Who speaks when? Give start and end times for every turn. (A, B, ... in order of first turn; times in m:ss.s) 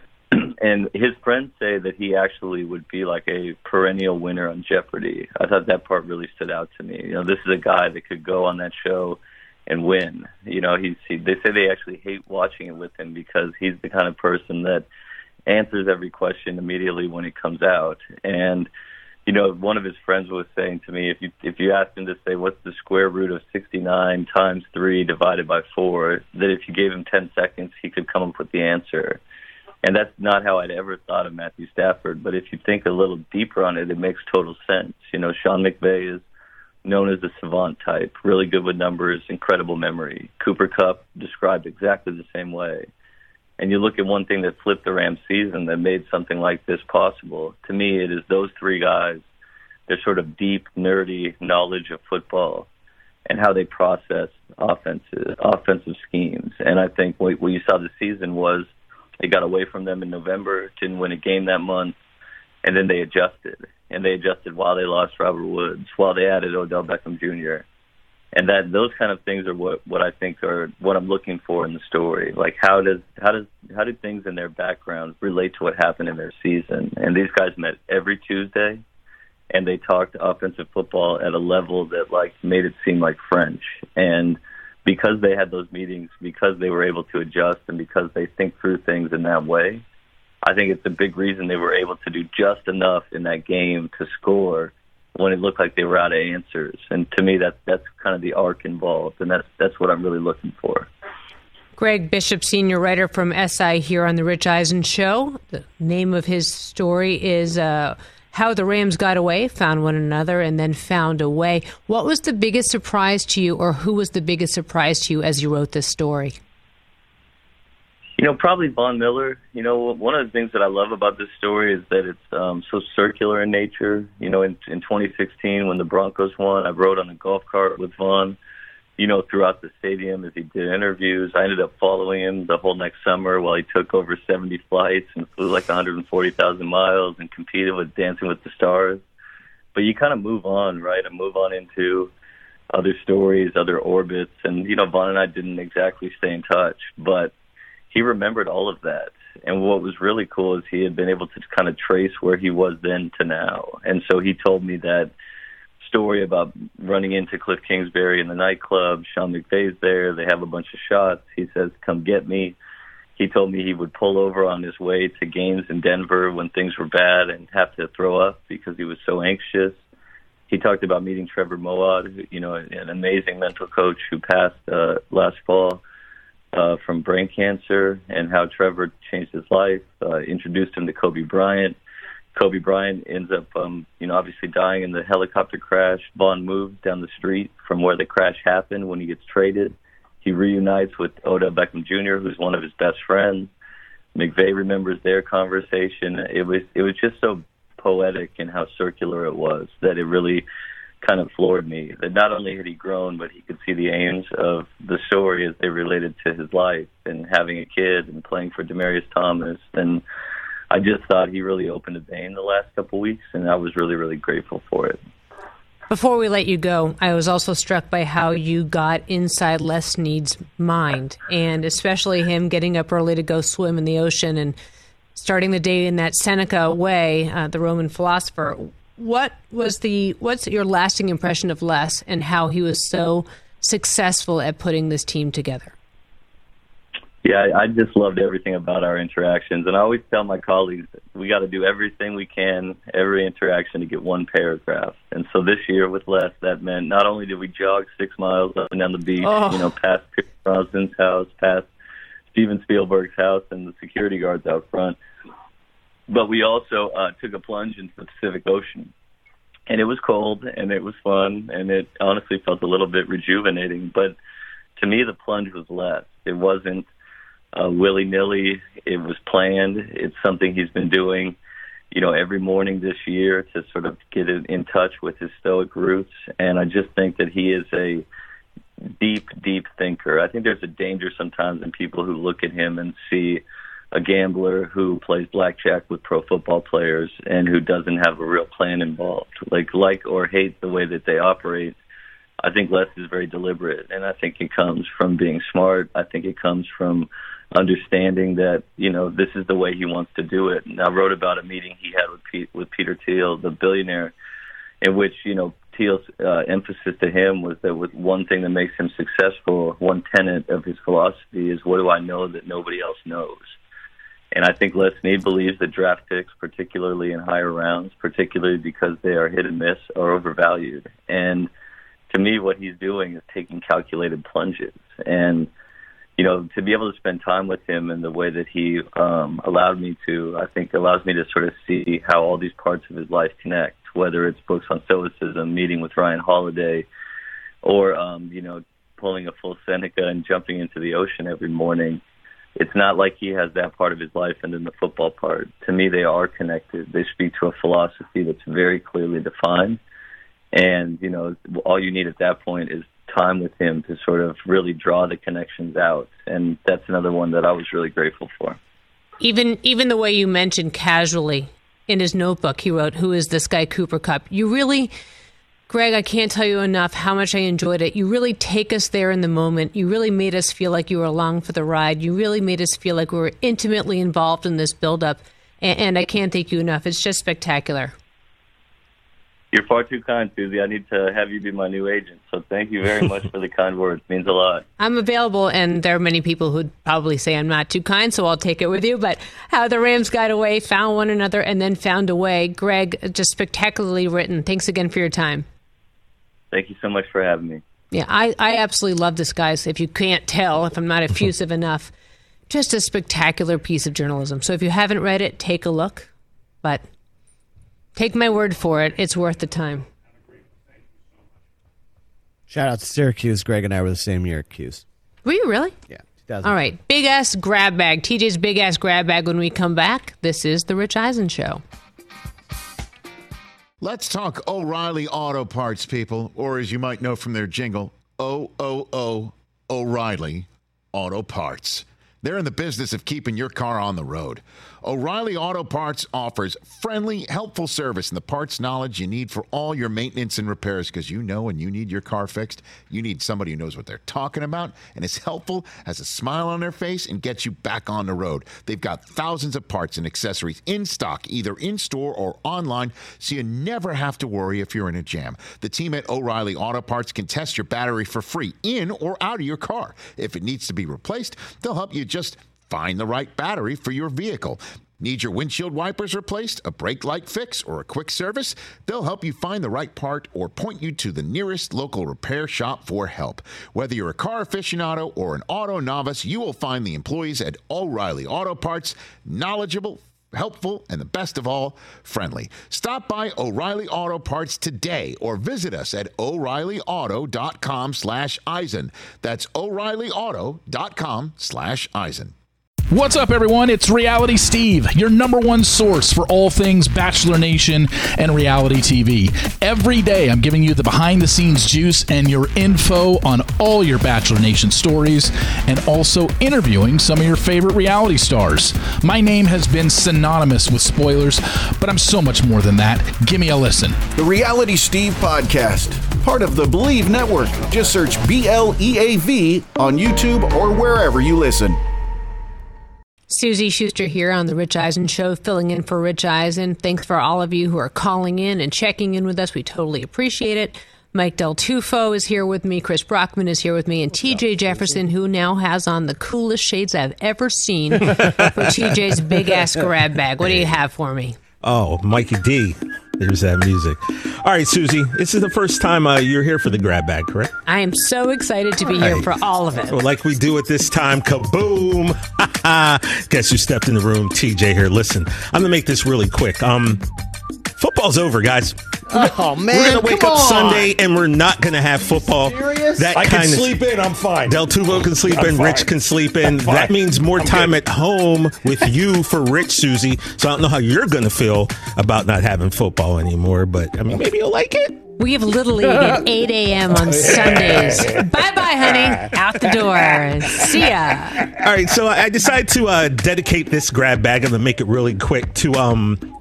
0:00.3-0:14.9 A
0:15.5-0:18.7 A
0:19.3-0:29.2 A
0:29.8-0:36.2 A
0:36.8-0:42.9 A
0:43.6-0:49.2 A
0:49.9-0:52.7 A
0:53.3-1:02.0 A
1:02.6-1:07.6 A
1:08.4-1:18.8 A
1:19.5-1:29.8 A
1:30.5-1:40.9 A
1:41.8-1:56.4 B
1:58.2-2:08.4 A
2:09.0-2:19.0 A
2:19.8-2:22.1 A
2:22.7-2:27.3 A
2:27.9-2:35.1 A
2:35.8-2:42.6 A
2:43.2-2:49.8 A
2:50.5-2:55.8 A
2:56.5-3:01.8 A
3:02.4-3:13.5 A
3:14.2-3:20.4 A
3:21.0-3:30.0 A
3:30.7-3:35.0 A
3:35.9-3:44.6 B
3:45.2-3:55.7 B
3:57.2-4:11.7 A
4:09.2-4:09.7 B
4:12.3-4:15.0 A
4:16.1-4:18.9 A
4:19.7-4:24.2 A
4:24.8-4:26.9 A
4:27.6-4:31.4 A
4:31.9-4:38.0 A
4:39.0-4:43.4 A
4:43.9-4:51.8 A
4:52.4-5:04.1 A
5:04.8-5:13.4 A
5:14.4-5:21.5 A
5:22.1-5:25.5 A
5:26.2-5:36.9 A
5:37.6-5:42.0 A
5:42.6-5:49.8 A
5:50.5-5:58.6 A
5:59.2-6:04.9 B
6:05.7-6:17.9 B
6:19.5-6:24.6 A
6:24.8-6:35.5 B
6:36.5-6:37.6 A
6:37.9-6:41.9 B
6:42.5-6:46.1 B
6:48.0-6:49.9 B
6:52.5-6:54.8 C
6:55.2-6:55.8 B
6:55.9-6:56.6 C
6:56.4-7:01.6 B
7:03.8-8:12.3 D
8:12.9-8:34.0 E
8:34.2-8:41.8 F
8:43.3-9:01.4 B
8:58.1-8:58.5 G
9:00.4-9:00.7 G
9:01.6-9:07.5 G
9:07.7-9:10.0 B
9:09.0-9:09.3 G
9:09.9-9:17.0 G
9:17.8-9:23.8 G
9:19.1-9:20.9 C
9:22.3-9:23.2 C
9:23.1-9:24.6 H
9:24.4-9:35.0 G
9:25.3-9:26.0 H
9:26.5-9:27.8 H
9:35.2-9:41.5 B
9:37.3-9:38.0 H
9:41.5-9:46.2 G